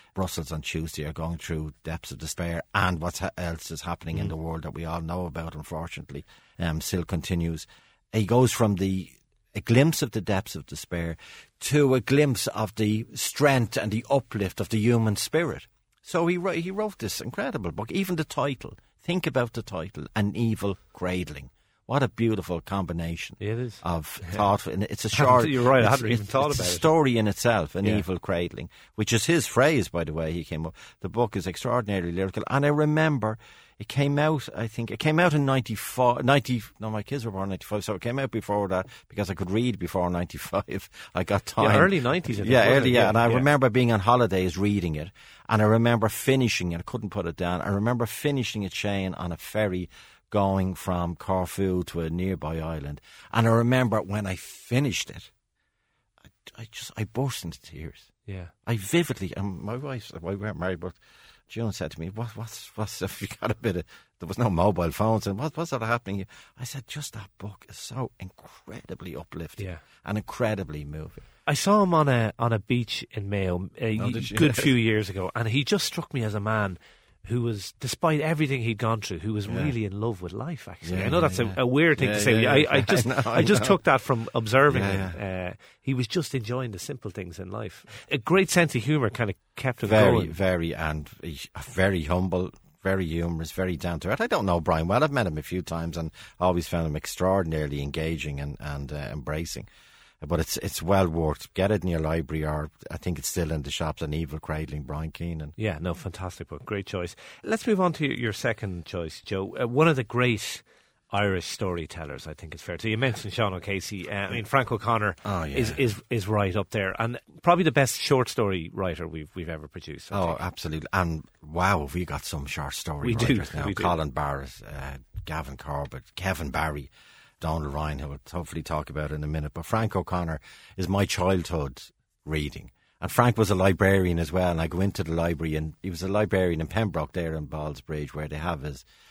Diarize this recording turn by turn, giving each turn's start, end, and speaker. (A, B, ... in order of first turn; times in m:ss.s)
0:00.2-0:55.3 A
0:23.4-0:24.4 B
0:25.1-0:26.9 B
0:41.6-0:43.5 B
0:56.4-0:58.1 A
0:58.3-0:58.5 B
0:58.7-1:11.2 A
1:09.6-1:09.8 B
1:11.5-1:30.3 B
1:14.0-1:14.7 A
1:19.5-1:19.7 A
1:20.8-1:23.8 A
1:24.7-1:25.2 A
1:29.8-1:39.7 A
1:40.2-1:45.6 A
1:45.6-2:00.4 B
1:55.2-1:55.8 A
2:00.1-2:18.8 A
2:03.0-2:03.9 B